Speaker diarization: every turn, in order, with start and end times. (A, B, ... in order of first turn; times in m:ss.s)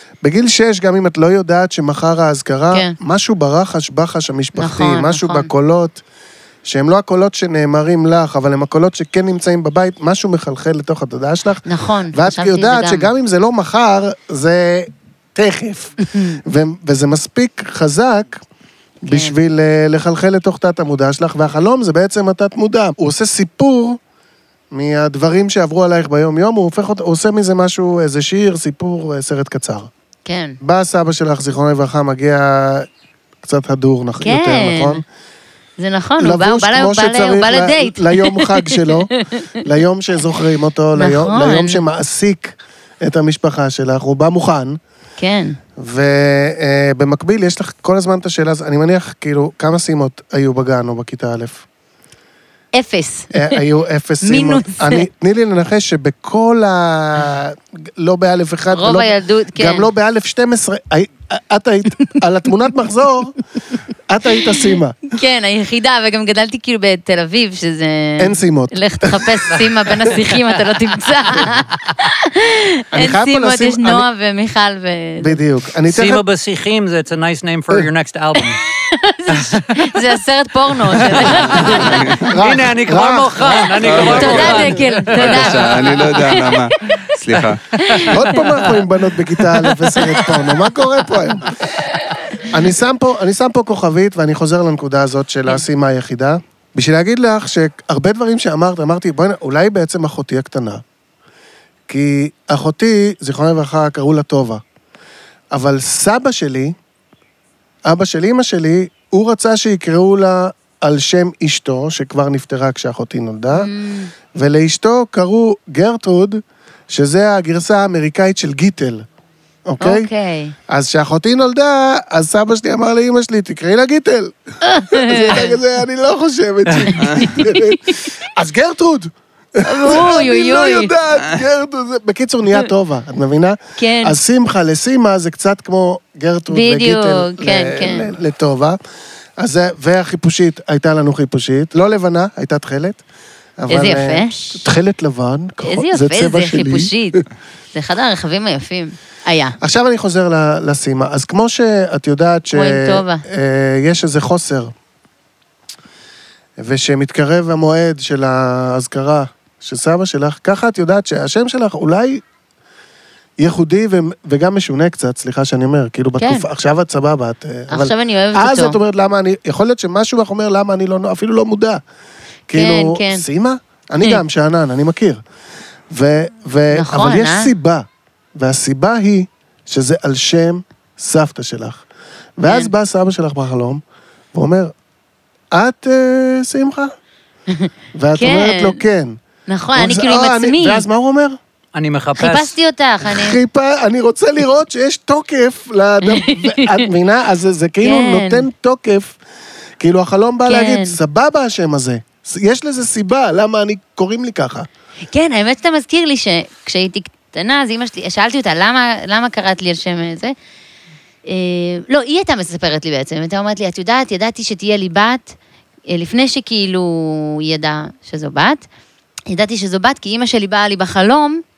0:00.2-0:06.0 A
0:04.6-0:05.5 B
0:06.6-0:18.4 A
0:11.6-0:13.1 B
0:19.0-0:24.0 A
0:19.1-0:19.4 B
0:24.7-0:29.9 A
0:30.2-0:30.6 B
0:30.6-0:32.9 A
0:33.4-0:35.0 A
0:34.2-0:35.0 B
0:35.8-0:39.5 B
0:36.2-0:39.1 A
0:39.6-0:44.8 A
0:41.0-0:41.8 B
0:45.2-0:45.6 B
0:45.8-0:51.6 A
0:52.7-0:53.6 B
0:53.3-1:03.4 A
0:54.2-0:55.1 B
0:58.7-0:59.9 B
1:04.1-1:05.0 A
1:05.1-1:15.4 B
1:08.2-1:09.3 A
1:09.6-1:10.8 C
1:12.9-1:14.1 A
1:15.2-1:16.2 A
1:15.9-1:18.6 C
1:18.5-1:22.1 B
1:19.3-1:19.6 C
1:20.9-1:25.8 C
1:21.6-1:24.8 A
1:21.7-1:22.3 D
1:23.8-1:27.8 D
1:24.0-1:27.2 B
1:27.8-1:28.4 B
1:28.0-1:31.6 A
1:32.5-1:40.8 A
1:41.9-1:44.6 A
1:45.5-1:46.8 A
1:47.9-1:53.7 A
1:53.5-1:54.1 B
1:54.3-1:59.0 A
1:59.7-2:00.1 A
1:59.8-2:00.6 B
2:00.7-2:04.3 A
2:04.7-2:05.6 B
2:04.9-2:18.8 A
2:07.0-2:07.4 D
2:07.0-2:07.6 B
2:09.7-2:10.9 B
2:13.8-2:14.2 B
2:16.5-2:18.1 B
2:19.4-2:23.0 A
2:23.6-2:26.9 A
2:23.7-2:24.6 B
2:25.6-2:27.2 B
2:27.7-2:29.6 B
2:29.6-2:34.7 A
2:32.5-2:33.2 B
2:36.6-2:42.2 A
2:43.4-2:51.8 A
2:46.2-2:46.5 B
2:47.7-2:48.8 B
2:52.5-2:55.2 A
2:52.5-2:53.3 B
2:55.9-3:01.8 A
2:56.7-2:57.5 B
3:02.4-3:03.8 A
3:02.4-3:02.7 B
3:04.3-3:04.7 A
3:05.5-3:06.9 A
3:07.5-3:08.8 B
3:08.0-3:09.2 A
3:09.5-3:10.8 B
3:09.8-3:11.4 A
3:11.8-3:12.6 C
3:12.2-3:13.4 B
3:13.0-3:19.2 A
3:16.1-3:16.8 B
3:17.8-3:18.5 B
3:19.8-3:24.7 A
3:20.5-3:21.0 B
3:25.1-3:30.4 B
3:31.2-3:35.4 B
3:35.9-3:38.6 B
3:39.3-3:41.4 B